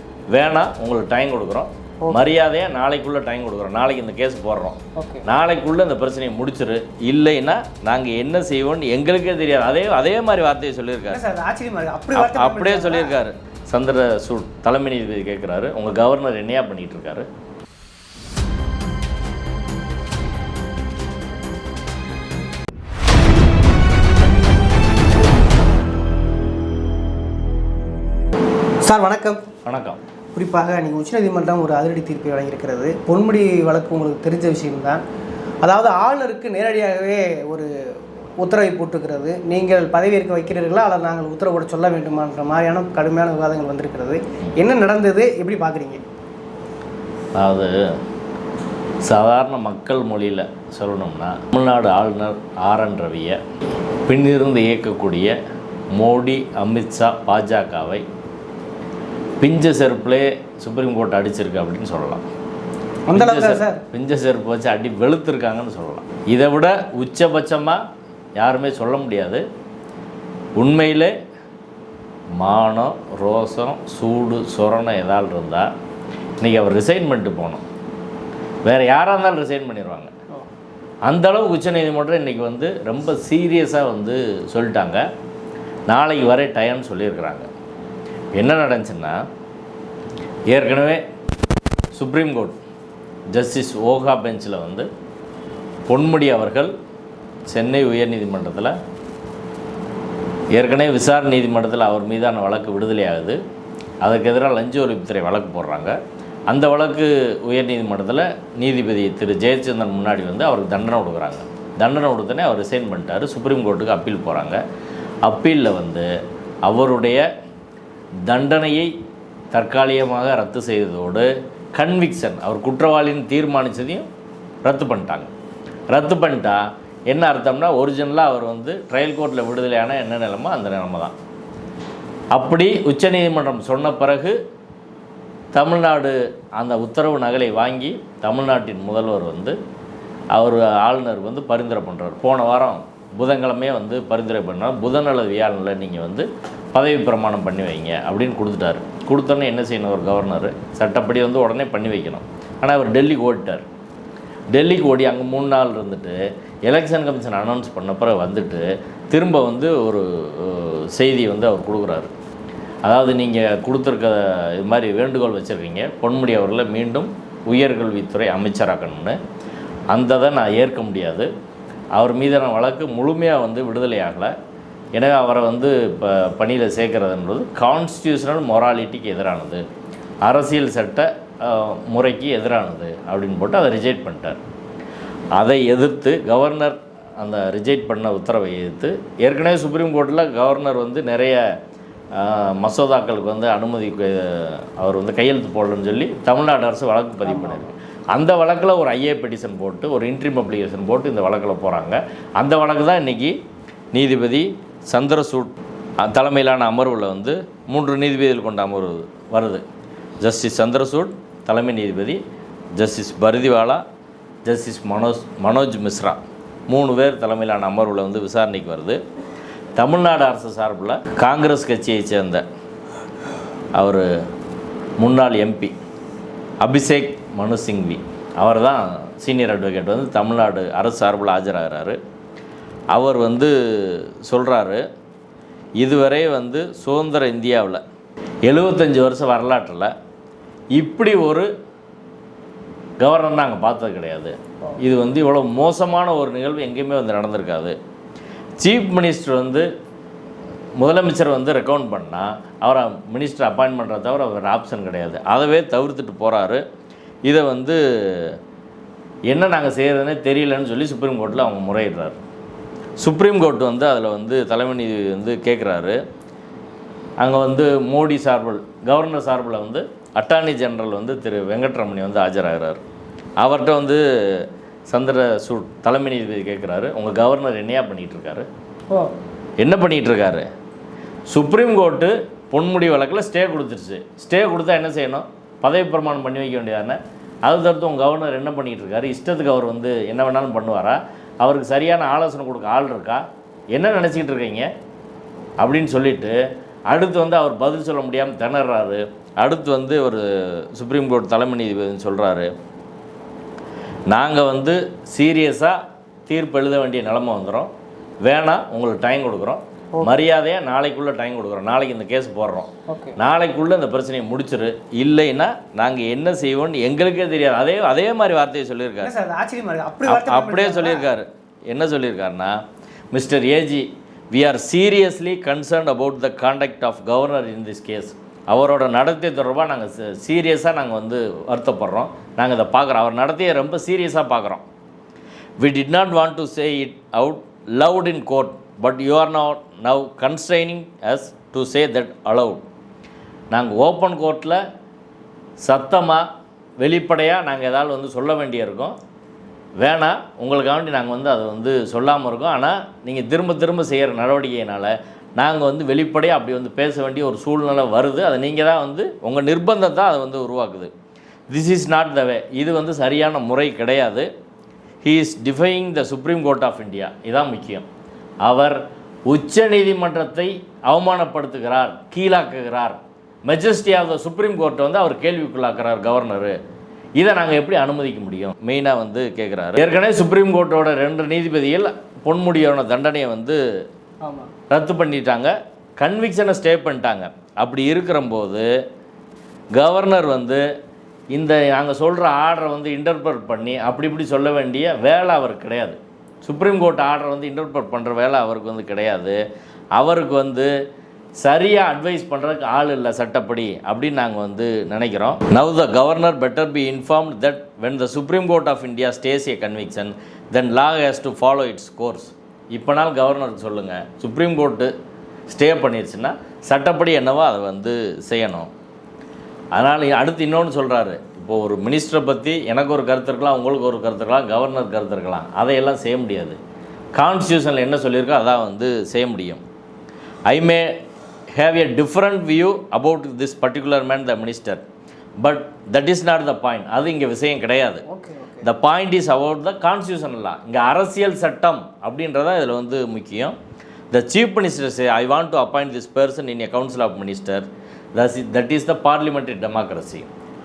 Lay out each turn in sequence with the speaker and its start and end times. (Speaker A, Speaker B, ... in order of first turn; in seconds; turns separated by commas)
Speaker A: 0.3-11.2, Speaker B: 2.0-2.3, Speaker B: 5.0-5.2, Speaker B: 11.1-13.2, Speaker A: 12.1-17.3, Speaker B: 28.8-29.4, Speaker A: 29.6-30.0, Speaker B: 30.3-35.0, Speaker B: 35.6-37.7, Speaker B: 38.4-46.0, Speaker A: 47.4-47.9, Speaker A: 49.0-53.4, Speaker A: 54.0-55.3, Speaker A: 55.9-58.0, Speaker A: 59.4-62.2, Speaker B: 63.1-63.8, Speaker A: 63.1-67.8, Speaker A: 68.3-69.4, Speaker A: 70.5-71.1, Speaker A: 72.4-75.7, Speaker A: 76.4-77.6, Speaker A: 78.6-80.1, Speaker A: 81.1-85.0, Speaker A: 85.9-87.5, Speaker A: 88.3-89.2, Speaker A: 90.5-91.0, Speaker A: 91.9-92.6, Speaker A: 93.3-94.9, Speaker A: 95.9-96.7, Speaker A: 97.5-98.7, Speaker A: 100.5-103.4, Speaker A: 104.0-106.0, Speaker A: 106.5-114.6, Speaker A: 115.2-116.1, Speaker A: 116.7-117.2, Speaker A: 118.3-118.9, Speaker A: 119.5-124.1, Speaker A: 124.6-125.3, Speaker A: 125.9-131.1, Speaker A: 132.3-134.3, Speaker A: 135.5-139.6, Speaker A: 140.3-153.7, Speaker A: 154.5-162.1, Speaker A: 162.8-169.2, Speaker A: 169.9-171.3, Speaker A: 171.9-174.3, Speaker A: 174.9-179.6, Speaker A: 180.2-184.4, Speaker A: 185.3-191.4, Speaker A: 192.1-203.3, Speaker B: 197.2-197.6, Speaker A: 203.9-209.6, Speaker A: 210.2-212.2, Speaker A: 212.8-213.8, Speaker A: 214.4-219.0, Speaker A: 219.8-222.4, Speaker A: 223.7-224.1, Speaker A: 225.0-225.7, Speaker A: 226.6-232.0, Speaker A: 232.9-234.8, Speaker A: 235.8-237.8, Speaker A: 238.4-239.9, Speaker A: 240.7-241.5, Speaker A: 243.0-247.7, Speaker A: 248.6-249.7, Speaker A: 250.8-256.6, Speaker A: 257.2-258.4, Speaker A: 259.3-262.2, Speaker A: 263.0-266.0, Speaker A: 267.2-272.8, Speaker A: 273.4-278.5, Speaker A: 279.6-280.4, Speaker A: 281.3-294.7, Speaker A: 295.6-302.5, Speaker A: 304.1-307.7, Speaker A: 308.2-319.1, Speaker B: 312.9-313.2, Speaker B: 319.0-321.1, Speaker A: 320.1-322.6, Speaker A: 323.1-334.6, Speaker A: 335.6-342.6, Speaker A: 343.5-344.6, Speaker A: 345.6-346.3, Speaker A: 346.8-349.0, Speaker A: 349.8-360.9, Speaker A: 361.5-364.3, Speaker A: 365.0-367.9, Speaker A: 368.4-376.5, Speaker A: 377.2-383.6, Speaker B: 384.2-384.5, Speaker A: 384.7-388.7, Speaker A: 389.7-390.6, Speaker A: 391.3-399.4, Speaker A: 399.9-400.7, Speaker A: 401.4-414.9, Speaker A: 415.5-418.7, Speaker A: 419.7-426.6, Speaker A: 427.1-429.6, Speaker A: 430.5-434.8, Speaker A: 435.4-438.0, Speaker B: 438.1-438.7, Speaker A: 438.6-443.6, Speaker A: 444.1-450.3